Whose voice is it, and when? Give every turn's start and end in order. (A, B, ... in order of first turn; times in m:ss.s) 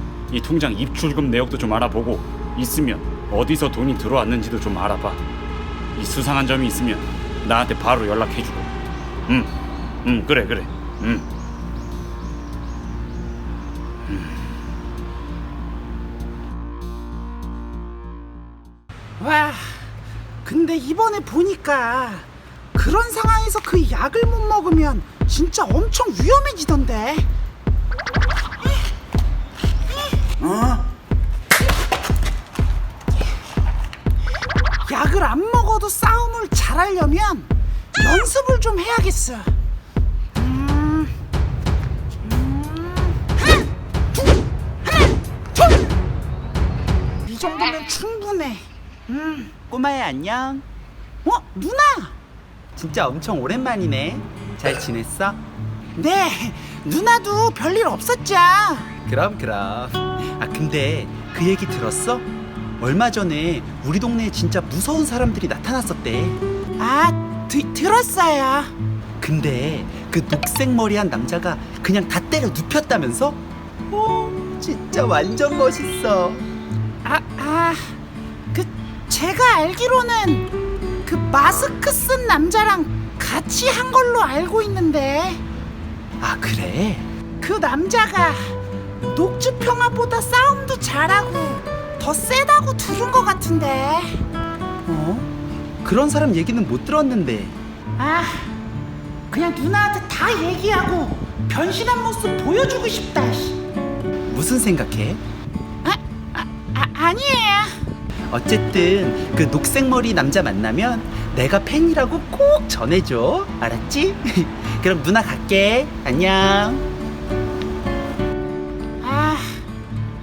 0:00.3-0:05.2 A
0:06.0-0:08.7 A
0:09.3-0:09.5 A
0:10.0-0:11.3 A
0:19.2-0:19.9 B
0:20.4-0:27.3 B
0:34.9-0:39.5 B
0:40.3-0:41.2 B
0:42.2-0:44.4 B
0:47.2-0:49.5 B
0:49.6-0:50.6 C
0:51.2-0:52.2 B
0:52.7-0:55.4 C
0:56.0-0:59.0 B
0:59.0-1:02.3 C
1:02.8-1:06.4 C
1:06.8-1:08.7 B
1:09.2-1:16.5 C
1:17.0-1:18.0 B
1:18.5-1:20.5 B
1:21.0-1:25.4 B
1:26.2-1:27.1 C
1:27.4-1:34.2 B
1:34.8-1:35.3 C
1:35.8-1:37.6 C
1:38.0-1:38.5 B
1:39.3-1:43.6 B
1:44.3-1:45.2 C
1:45.8-1:47.8 B
1:48.3-1:56.9 C
1:59.0-1:59.7 B